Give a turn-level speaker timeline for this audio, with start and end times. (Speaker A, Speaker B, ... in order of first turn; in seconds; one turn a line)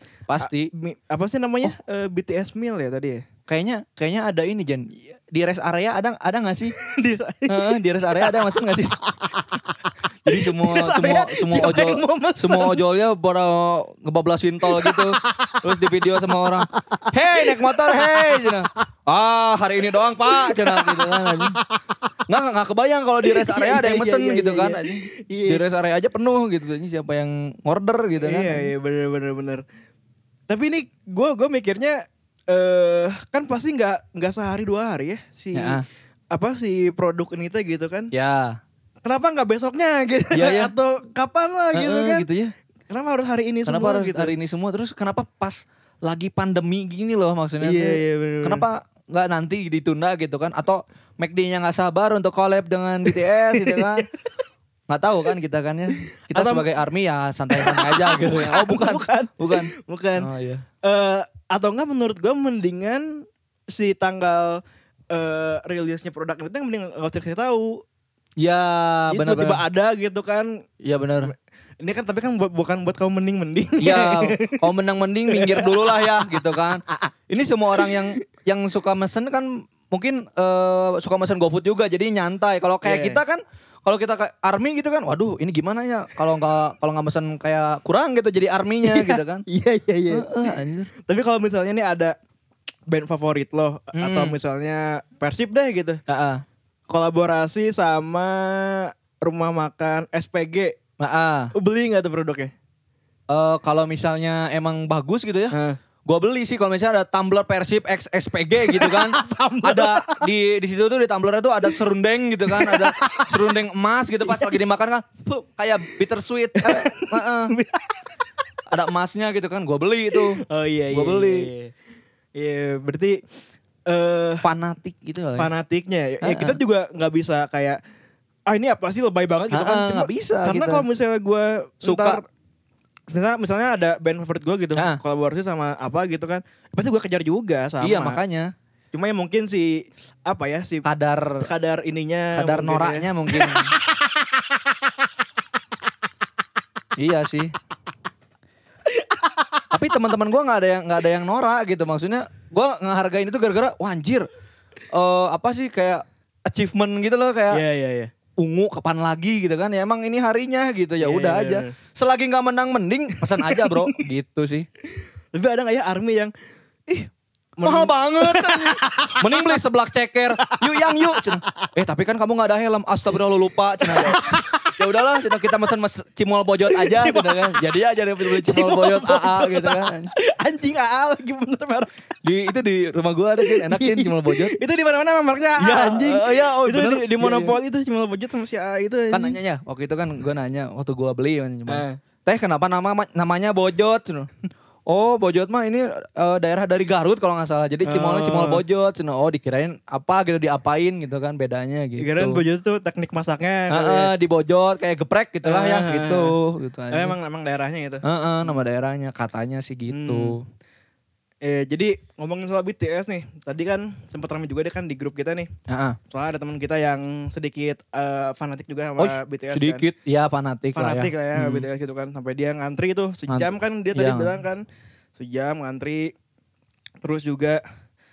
Speaker A: 0.3-0.7
Speaker B: 0.4-3.2
Speaker A: 3.5-6.8
Speaker B: 6.8-12.8
Speaker A: 7.5-8.9
Speaker A: 10.3-21.6
Speaker B: 14.7-15.7
Speaker B: 16.2-18.7
Speaker B: 19.9-21.6
Speaker A: 22.3-28.7
Speaker B: 23.2-25.6
Speaker B: 28.2-29.6
Speaker B: 30.5-35.8
Speaker A: 35.5-35.9
Speaker B: 36.3-38.1
Speaker A: 38.1-38.6
Speaker B: 39.0-42.3
Speaker A: 40.3-40.7
Speaker A: 41.7-42.5
Speaker B: 42.9-44.4
Speaker A: 43.7-54.1
Speaker B: 47.6-48.6
Speaker B: 53.1-54.0
Speaker A: 54.9-60.6
Speaker B: 56.3-56.7
Speaker B: 57.5-60.3
Speaker B: 60.8-67.8
Speaker A: 68.4-69.6
Speaker B: 69.1-70.6
Speaker A: 70.8-71.3
Speaker B: 71.3-74.6
Speaker A: 73.8-89.5
Speaker B: 75.3-76.4
Speaker B: 82.8-83.2
Speaker B: 88.8-90.5
Speaker A: 90.1-90.9
Speaker B: 91.1-92.2
Speaker B: 92.9-96.0
Speaker A: 93.9-94.4
Speaker A: 96.1-96.4
Speaker B: 96.9-100.8
Speaker A: 101.0-101.5
Speaker B: 101.5-102.5
Speaker A: 103.3-105.5
Speaker B: 105.5-105.8
Speaker A: 106.1-117.5
Speaker B: 108.7-110.2
Speaker B: 112.5-113.3
Speaker B: 116.6-117.9
Speaker A: 118.7-121.5
Speaker B: 120.1-121.7
Speaker B: 122.4-123.2
Speaker B: 123.9-124.5
Speaker A: 124.4-125.5
Speaker B: 125.4-127.8
Speaker A: 126.2-126.6
Speaker B: 128.5-132.2
Speaker A: 129.5-130.8
Speaker A: 131.8-132.2
Speaker B: 133.1-138.2
Speaker A: 137.8-138.5
Speaker B: 138.9-140.9
Speaker A: 140.8-141.4
Speaker B: 141.4-144.8
Speaker A: 142.3-143.7
Speaker A: 147.0-147.5
Speaker B: 149.0-149.6
Speaker A: 149.7-154.3
Speaker A: 154.9-157.6
Speaker B: 157.5-158.1
Speaker A: 158.4-164.7
Speaker B: 161.0-161.7
Speaker B: 163.2-164.0
Speaker B: 165.3-166.3
Speaker B: 166.9-169.6
Speaker A: 167.6-180.1
Speaker B: 170.4-171.7
Speaker B: 173.8-174.8
Speaker B: 176.7-177.6
Speaker B: 178.2-181.9
Speaker A: 182.2-184.6
Speaker B: 183.4-189.4
Speaker A: 185.6-187.6
Speaker A: 189.1-194.3
Speaker B: 191.7-192.0
Speaker A: 194.9-202.4
Speaker B: 197.8-198.6
Speaker B: 202.0-204.1
Speaker A: 203.7-207.2
Speaker B: 205.4-206.3
Speaker B: 206.9-208.5
Speaker A: 208.0-210.4
Speaker B: 209.9-210.4
Speaker B: 211.4-215.5
Speaker A: 215.7-216.0
Speaker B: 216.1-219.9
Speaker A: 219.0-221.7
Speaker B: 220.8-224.6
Speaker A: 223.3-224.4
Speaker B: 225.2-226.1
Speaker B: 227.0-227.6